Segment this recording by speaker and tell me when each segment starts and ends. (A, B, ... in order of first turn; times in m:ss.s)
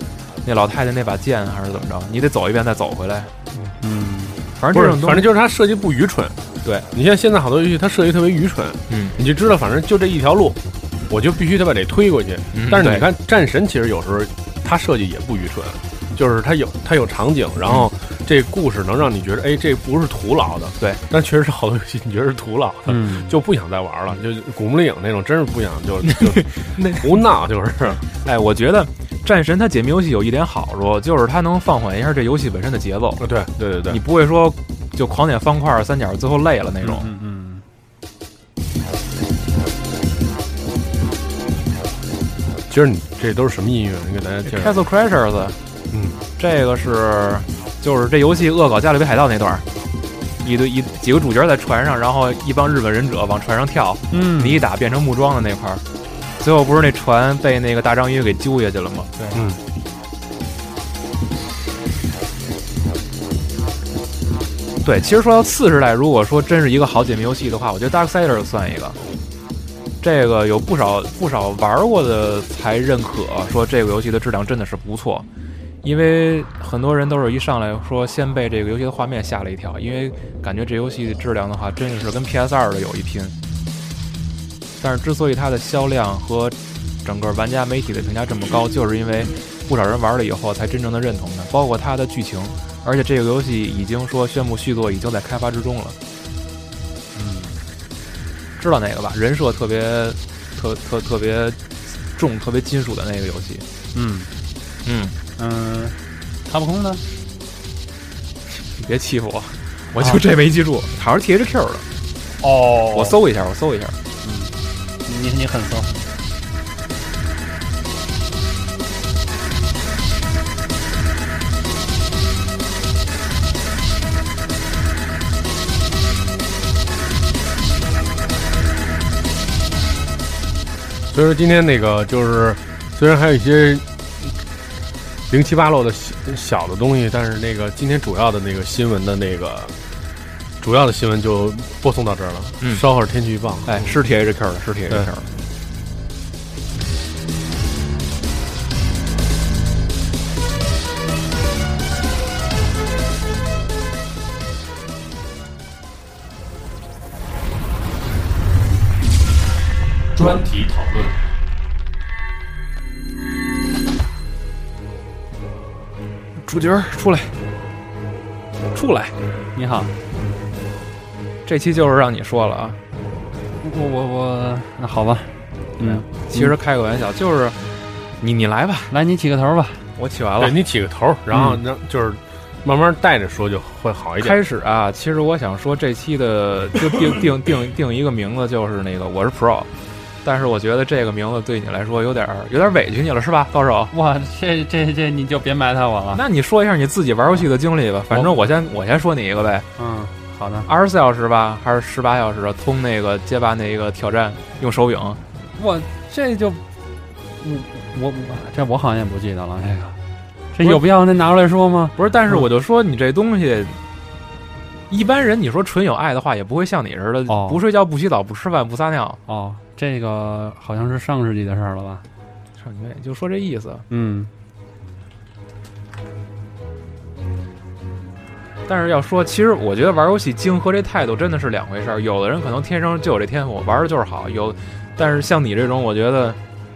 0:00.4-0:03.3 A
0:03.8-0:04.4 B
0:04.6-0:05.3 A
0:04.7-0:06.4 C
0:06.9-0:28.0 C
0:08.9-0:09.2 A
0:12.5-0:13.1 A
0:22.8-0:23.4 B
0:26.0-0:27.1 A
0:28.2-0:33.2 A
0:33.2-0:34.0 C
0:33.9-0:37.1 A
0:36.8-0:37.6 B
0:42.7-0:44.8 C
0:44.4-0:45.6 A
0:45.9-0:46.2 C
0:46.4-0:49.6 A
0:50.4-0:55.8 A
0:54.1-0:54.6 B
0:56.4-0:59.2 A
0:59.3-0:59.6 C
1:04.8-1:09.0 A
1:10.0-1:15.2 A
1:15.8-1:23.3 A
1:24.8-1:36.0 A
1:37.1-1:37.6 B
1:38.6-1:41.6 A
1:42.1-1:43.6 A
1:43.9-1:44.3 B
1:44.8-1:45.2 A
1:45.4-1:47.0 B
1:48.6-1:51.8 A
1:50.0-1:50.2 B
1:52.4-1:53.2 B
1:52.9-1:54.0 A
1:54.2-1:56.0 B
2:11.1-2:13.8 C
2:15.3-2:19.7 C
2:20.6-2:24.0 C
2:23.6-2:25.3 A
2:40.1-2:41.1 C
2:46.4-2:47.4 A
2:48.7-2:49.1 A
2:49.5-2:49.9 B
2:51.4-2:52.8 A
2:53.6-2:56.5 B
2:55.8-2:57.6 A
2:58.2-2:58.9 A
2:58.9-2:59.8 B
3:00.0-3:00.6 A
3:00.4-3:04.4 C
3:04.2-3:09.7 A
3:10.2-3:13.9 A
3:13.9-3:16.2 B
3:16.1-3:19.6 A
3:19.8-3:20.7 B
3:20.7-3:25.2 A
3:25.6-3:26.6 B
3:27.4-3:30.0 B
3:30.5-3:32.5 B
3:32.0-3:33.8 A
3:34.9-3:39.2 A
3:37.3-3:37.6 B
3:39.3-3:42.0 B
3:42.6-3:43.8 A
3:43.9-3:44.3 B
3:48.7-3:56.4 A